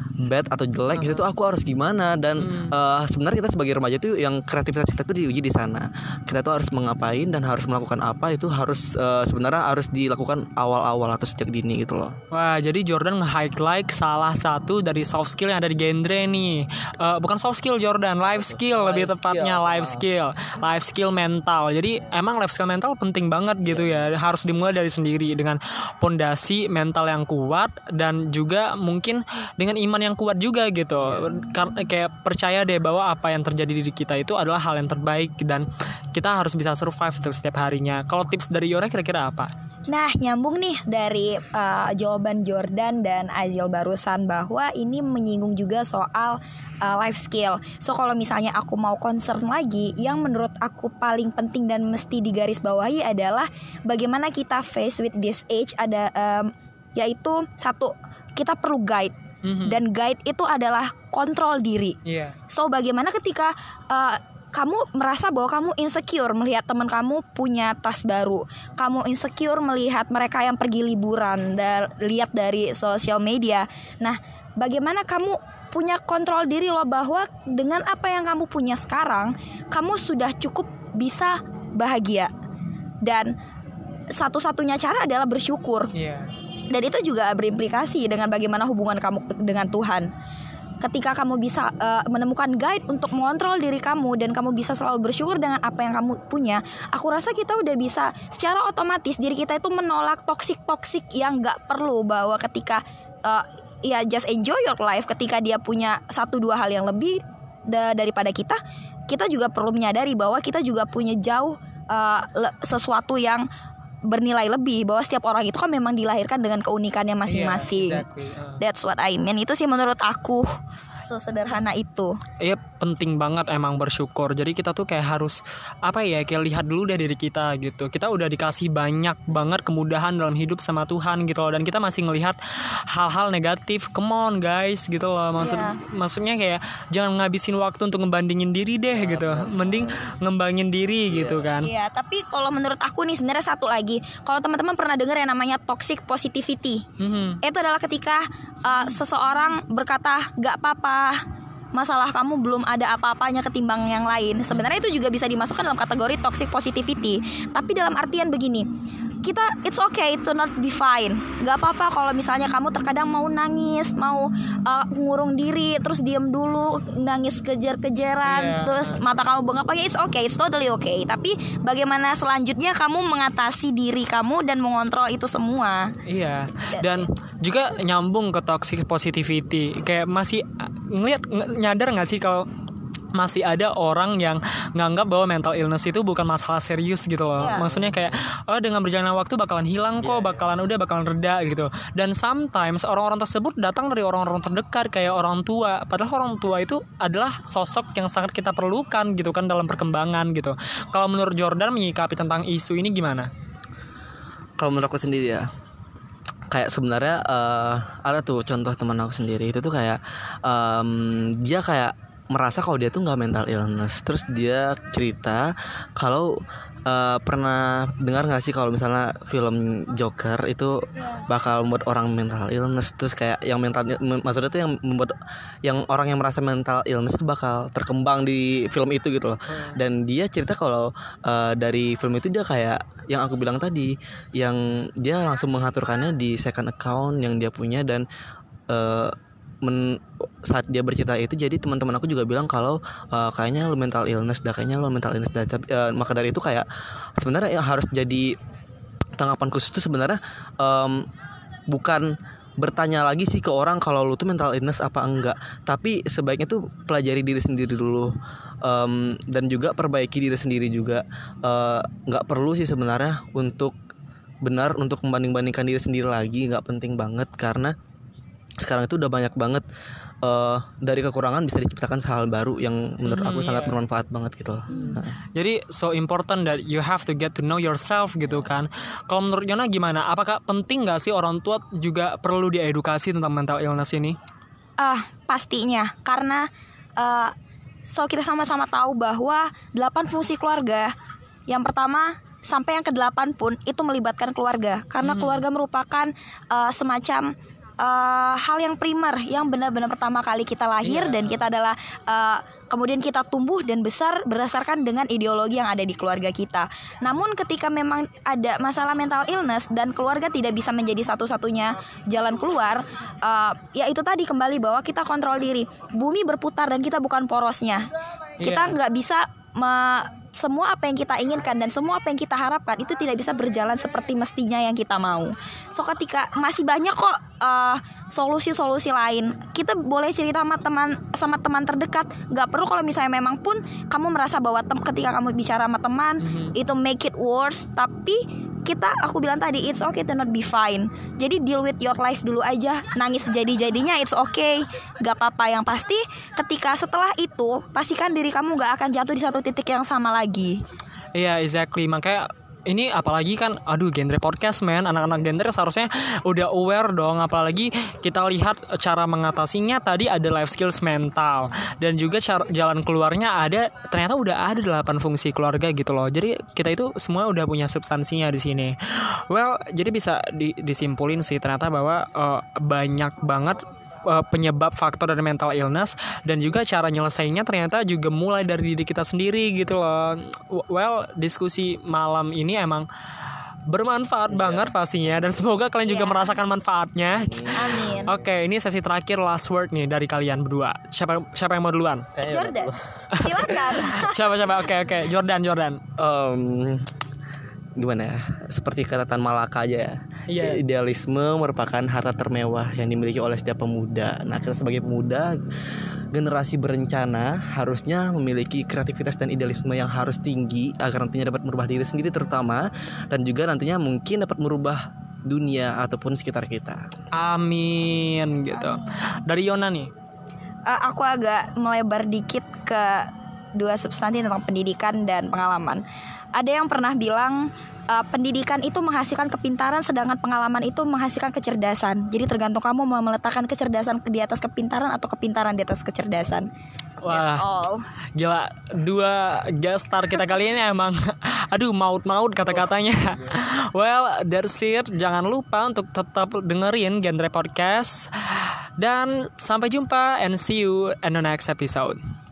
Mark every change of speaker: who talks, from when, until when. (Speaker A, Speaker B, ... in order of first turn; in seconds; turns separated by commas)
Speaker A: 0.2-12.1, Speaker B: 0.9-1.2, Speaker B: 2.4-2.8, Speaker B: 12.3-39.5, Speaker A: 18.3-20.1, Speaker C: 39.9-62.0, Speaker B: 59.4-59.8, Speaker B: 62.0-62.3, Speaker C: 62.5-82.3, Speaker C: 83.0-83.3, Speaker C: 84.1-85.9, Speaker B: 85.9-86.3, Speaker C: 86.7-90.1, Speaker C: 90.8-108.6, Speaker C: 109.1-113.4, Speaker C: 114.1-118.0, Speaker B: 117.3-118.6, Speaker C: 118.6-120.5, Speaker C: 121.0-122.2, Speaker B: 122.4-141.7, Speaker C: 135.4-135.8, Speaker A: 138.9-140.1, Speaker A: 141.1-141.5, Speaker C: 141.6-146.8, Speaker B: 147.0-147.4, Speaker C: 147.4-151.2, Speaker C: 151.7-158.7, Speaker C: 159.2-175.9, Speaker B: 168.2-169.0, Speaker B: 176.1-182.5, Speaker C: 176.7-177.0, Speaker B: 183.1-203.3, Speaker C: 187.4-187.7, Speaker A: 204.6-205.5, Speaker A: 206.5-225.1, Speaker A: 225.6-238.1, Speaker B: 229.5-229.8, Speaker A: 238.7-246.7, Speaker A: 247.2-248.3, Speaker A: 249.2-251.1, Speaker A: 251.7-263.7, Speaker A: 264.4-267.7, Speaker A: 268.6-269.6, Speaker A: 270.2-275.1, Speaker B: 273.0-273.8, Speaker B: 274.7-284.1, Speaker C: 284.8-286.5, Speaker C: 287.0-287.3, Speaker C: 287.9-290.9, Speaker C: 291.5-297.3, Speaker B: 295.0-295.4, Speaker C: 297.8-317.9, Speaker B: 300.8-301.4, Speaker B: 318.4-318.8, Speaker C: 318.4-350.6, Speaker B: 336.2-336.5, Speaker B: 351.1-382.9, Speaker B: 383.7-392.1, Speaker A: 384.3-384.7, Speaker C: 385.8-386.4, Speaker A: 387.3-388.1, Speaker C: 387.5-388.1, Speaker A: 392.1-392.8, Speaker C: 392.2-394.4, Speaker B: 393.1-395.8, Speaker A: 396.0-396.9, Speaker A: 397.8-405.4, Speaker B: 400.3-400.6, Speaker A: 406.1-416.8, Speaker B: 417.1-419.9, Speaker C: 420.7-425.8, Speaker C: 426.4-436.5, Speaker B: 437.0-437.4, Speaker C: 437.1-437.8, Speaker B: 438.1-452.0